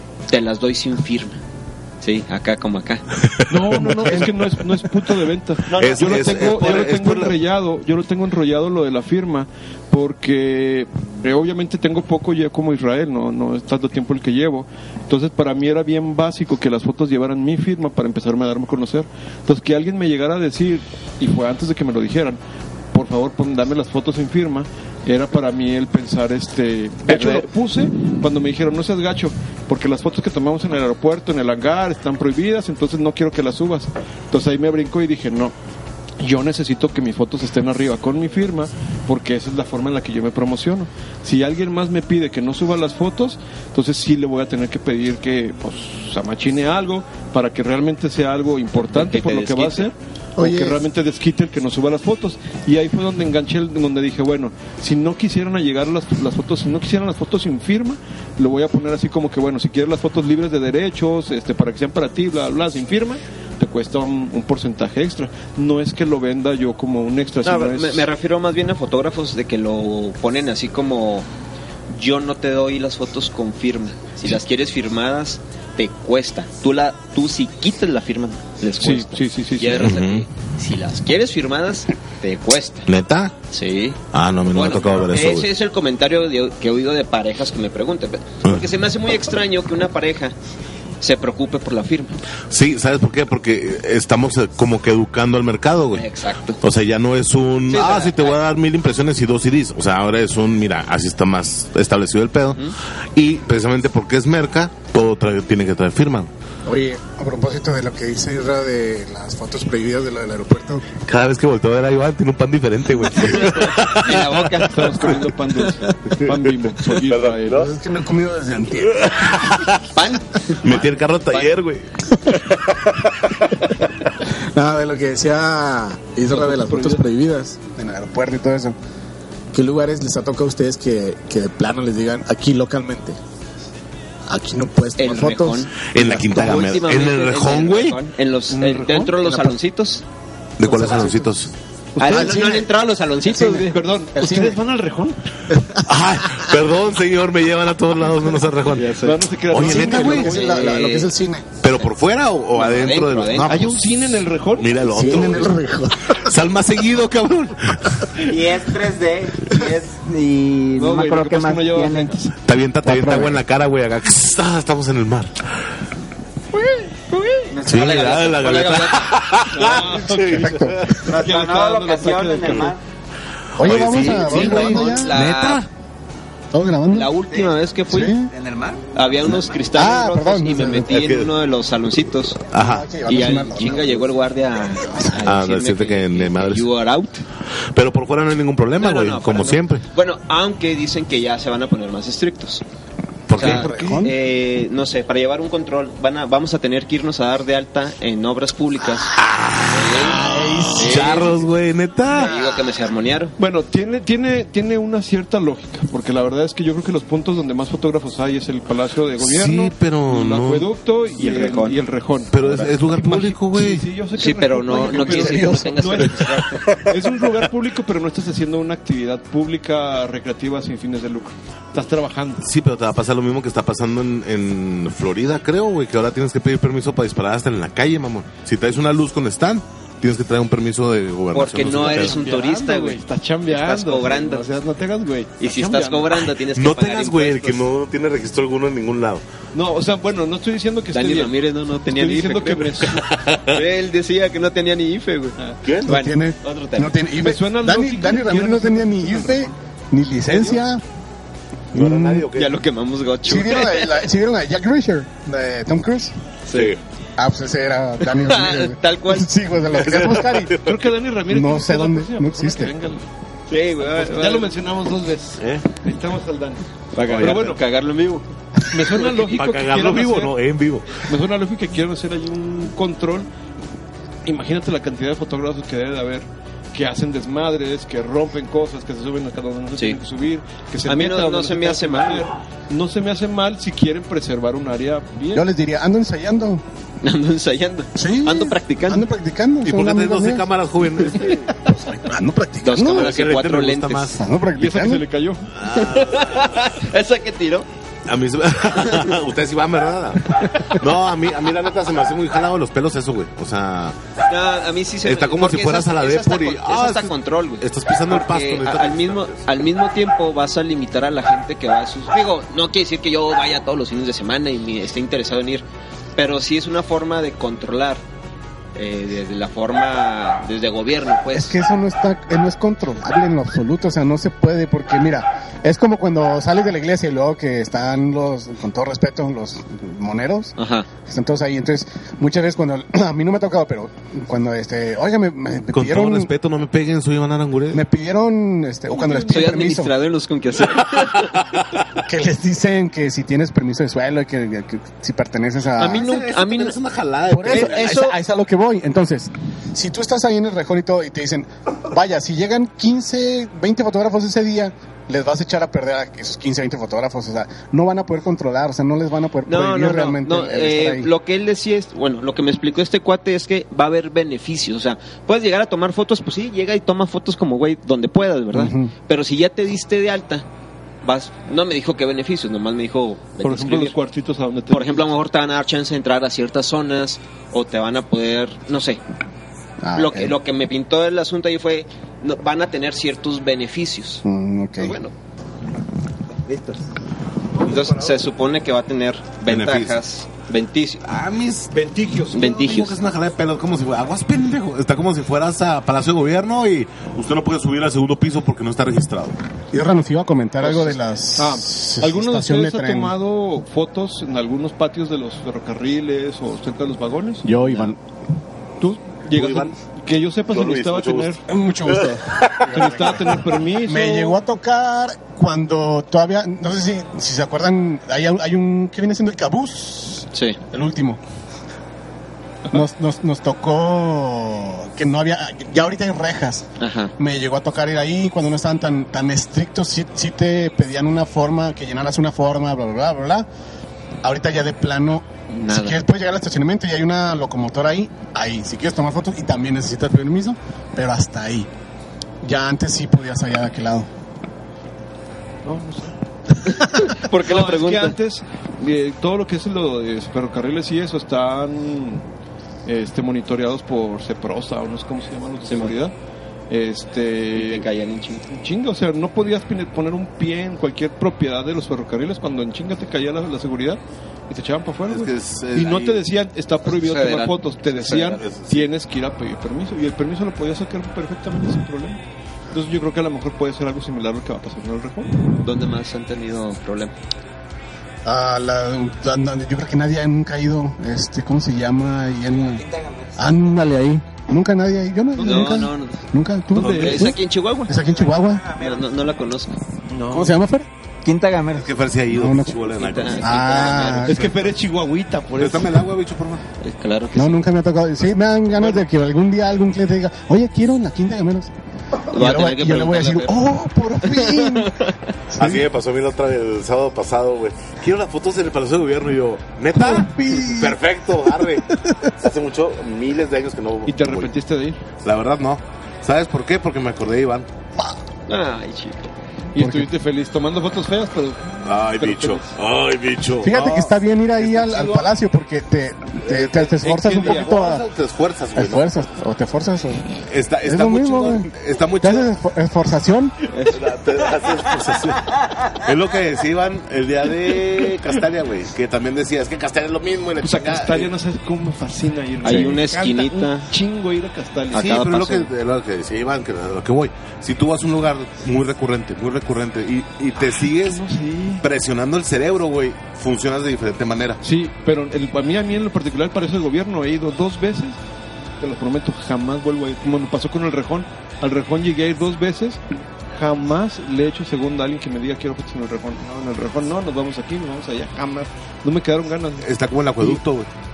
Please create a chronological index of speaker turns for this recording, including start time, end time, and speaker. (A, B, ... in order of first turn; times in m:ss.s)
0:00.3-0:01.4 A
0:02.0-0:03.0 A
0:03.3-0:04.3 B
0:03.5-0:22.4 C
0:05.7-0:07.0 A
0:05.8-0:07.4 B
0:22.9-0:35.5 C
0:27.1-0:27.4 A
0:36.2-1:08.1 C
0:48.9-0:49.9 A
0:50.4-0:50.8 D
1:07.4-1:11.3 A
1:11.9-1:22.9 A
1:18.8-1:20.0 C
1:19.8-1:20.2 B
1:22.9-1:23.3 B
1:23.5-1:24.0 A
1:24.1-1:25.5 B
1:24.5-1:30.3 A
1:31.0-1:32.2 A
1:32.5-1:36.0 B
1:35.9-1:36.6 A
1:36.6-1:42.6 B
1:37.7-1:38.4 A
1:43.1-1:46.3 B
1:46.6-1:50.8 D
1:51.0-1:55.2 B
1:53.2-1:55.2 A
1:54.6-1:57.7 C
1:56.1-1:56.3 B
1:56.9-1:57.7 B
1:57.5-1:59.5 D
1:58.9-1:59.8 B
1:59.9-2:01.5 A
2:00.6-2:02.2 B
2:04.2-2:08.7 D
2:06.3-2:07.0 C
2:09.5-2:13.2 D
2:14.3-2:15.7 D
2:15.0-2:20.0 A
2:15.9-2:18.0 B
2:18.5-2:19.1 C
2:20.6-2:21.5 B
2:20.7-2:21.1 D
2:22.0-2:22.4 C
2:22.0-2:23.8 A
2:22.0-2:22.7 D
2:23.3-2:24.6 D
2:23.7-2:25.2 C
2:25.5-2:26.5 D
2:25.8-2:29.0 B
2:28.7-2:29.2 A
2:29.0-2:30.7 C
2:29.5-2:30.4 B
2:29.6-2:31.5 D
2:29.9-2:31.1 A
2:31.6-2:35.6 B
2:32.5-2:33.7 A
2:33.5-2:35.5 C
2:34.9-2:36.3 D
2:36.1-2:38.2 B
2:38.2-2:42.1 E
2:40.8-2:42.3 C
2:42.4-2:45.3 B
2:42.8-2:43.4 D
2:46.5-2:49.1 A
2:47.5-2:48.5 E
2:47.6-2:51.0 B
2:49.5-2:52.7 C
2:50.2-2:50.9 D
2:51.0-2:52.8 E
2:53.6-2:55.2 D
2:53.6-2:55.7 B
2:54.0-2:55.6 A
2:56.5-2:57.1 D
2:56.9-2:58.2 A
2:57.3-2:57.5 E
2:57.9-2:58.3 D
2:58.3-2:58.8 E
2:58.9-3:02.4 A
2:59.7-3:01.0 D
3:00.7-3:01.3 B
3:02.5-3:02.9 B
3:02.5-3:04.2 D
3:03.0-3:07.2 A
3:04.7-3:05.2 D
3:05.2-3:06.7 B
3:07.7-3:09.8 B
3:08.8-3:12.6 A
3:13.3-3:14.0 B
3:13.3-3:14.2 D
3:13.3-3:19.1 A
3:19.0-3:22.4 B
3:19.7-3:20.2 A
3:20.0-3:21.2 D
3:20.7-3:21.4 A
3:22.1-3:23.3 A
3:23.4-3:42.4 C
3:29.2-3:30.7 B
3:31.2-3:31.8 A
3:32.3-3:33.8 B
3:34.2-3:36.6 A
3:34.7-3:36.3 D
3:42.4-3:52.2 B
3:51.3-3:54.4 A
3:51.6-3:56.2 C
3:55.4-3:57.6 A
3:56.5-3:59.2 B
3:59.5-4:01.3 C
4:00.9-4:06.9 A
4:01.8-4:03.1 C
4:03.1-4:03.6 B
4:05.8-4:10.8 D
4:07.2-4:09.5 C
4:11.7-4:12.3 D
4:11.7-4:12.6 B
4:12.3-4:14.0 A
4:13.2-4:16.1 D
4:16.4-4:16.7 A
4:16.5-4:16.8 B
4:17.2-4:20.6 D
4:18.0-4:19.3 A
4:19.7-4:20.8 B
4:20.6-4:23.0 C
4:21.3-4:22.7 D
4:23.5-4:24.5 A
4:23.8-4:26.6 C
4:25.4-4:25.6 B
4:26.9-4:28.2 A
4:27.0-4:27.5 B
4:27.2-4:27.6 C
4:28.7-4:30.4 C
4:28.9-4:31.0 B
4:31.0-4:33.3 C
4:34.2-4:45.4 C
4:40.8-4:42.3 A
4:45.3-4:46.6 D
4:47.0-4:49.0 A
4:47.9-4:50.5 D
4:49.6-4:51.5 B
4:51.1-4:53.2 D
4:52.6-4:54.2 A
4:52.8-4:54.2 B
4:54.1-4:55.0 D
4:54.6-4:55.5 C
4:55.5-4:56.5 B
4:55.7-4:57.7 A
4:58.1-5:04.0 B
5:04.3-5:15.6 A
5:05.0-5:09.4 B
5:16.2-5:18.0 A
5:18.7-5:21.6 A
5:21.3-5:30.5 D
5:30.6-5:30.9 A
5:31.0-5:36.3 D
5:35.7-5:37.8 B
5:37.7-5:39.9 D
5:38.9-5:39.6 C
5:39.2-5:41.4 A
5:42.0-5:46.1 D
5:45.8-5:46.8 A
5:45.9-5:47.9 B
5:47.3-6:01.1 D
5:47.4-5:48.2 A
5:59.4-6:10.4 A
6:08.5-6:08.9 D
6:11.0-6:13.9 A
6:13.4-6:15.1 C
6:14.7-6:19.0 A
6:19.8-6:20.3 D
6:19.9-6:24.2 A
6:24.2-6:25.0 D
6:24.8-6:25.1 A
6:26.4-6:26.8 E
6:27.6-6:31.0 A
6:27.6-6:28.2 C
6:29.5-6:30.0 B
6:31.0-6:39.4 B
6:31.7-6:32.4 C
6:32.3-6:33.0 A
6:39.7-6:43.1 D
6:40.6-6:47.5 C
6:47.4-6:48.0 D
6:48.8-6:51.4 C
6:49.3-6:49.7 B
6:50.5-6:51.4 B
6:51.5-6:53.2 D
6:51.9-6:53.4 B
6:52.7-6:54.4 C
6:53.8-7:01.2 D
7:00.3-7:00.6 A
7:02.7-7:06.7 D
7:06.8-7:07.1 A
7:07.2-7:13.5 D
7:14.2-7:21.7 D
7:15.5-7:16.0 A
7:22.4-7:24.1 D
7:25.6-7:26.1 C
7:26.6-7:28.2 A
7:27.3-7:32.2 C
7:32.8-7:36.1 C
7:35.7-7:35.9 A
7:36.7-7:37.8 C
7:37.5-7:38.4 A
7:38.5-7:52.2 C
7:45.1-7:46.2 B
7:46.9-7:48.4 A
7:48.3-7:48.9 B
7:52.7-7:55.4 C
7:55.6-7:57.1 A
7:58.2-8:02.8 D
8:02.7-8:03.3 E
8:03.4-8:08.7 D
8:05.4-8:06.2 A
8:06.7-8:07.3 C
8:06.8-8:08.0 A
8:08.6-8:09.0 E
8:08.7-8:09.8 A
8:10.1-8:10.5 C
8:10.3-8:10.9 D
8:11.2-8:11.9 E
8:11.7-8:14.6 B
8:12.3-8:12.8 D
8:13.0-8:14.4 A
8:13.4-8:14.5 D
8:14.2-8:16.0 C
8:15.6-8:16.6 B
8:16.8-8:17.6 A
8:17.3-8:21.7 D
8:22.3-8:24.9 D
8:22.3-8:23.6 A
8:24.2-8:25.1 A
8:25.5-8:25.8 D
8:25.6-8:34.5 B
8:29.9-8:31.0 D
8:31.6-8:32.2 D
8:34.0-8:35.0 C
8:35.2-8:37.7 B
8:38.5-8:39.3 A
8:39.7-8:42.7 C
8:39.7-8:40.1 D
8:41.8-8:44.1 B
8:43.6-8:48.0 D
8:44.6-8:45.3 C
8:46.4-8:49.2 B
8:47.0-8:47.7 C
8:48.7-8:50.3 D
8:50.5-8:52.5 B
8:50.8-8:53.5 D
8:53.7-8:54.0 A
8:53.9-9:01.3 B
9:00.6-9:05.2 C
9:02.6-9:03.9 A
9:04.9-9:05.7 A
9:04.9-9:11.2 B
9:10.6-9:11.8 C
9:11.8-9:14.6 B
9:14.6-9:18.2 C
9:18.8-9:23.0 C
9:23.5-9:30.6 C
9:29.8-9:30.9 B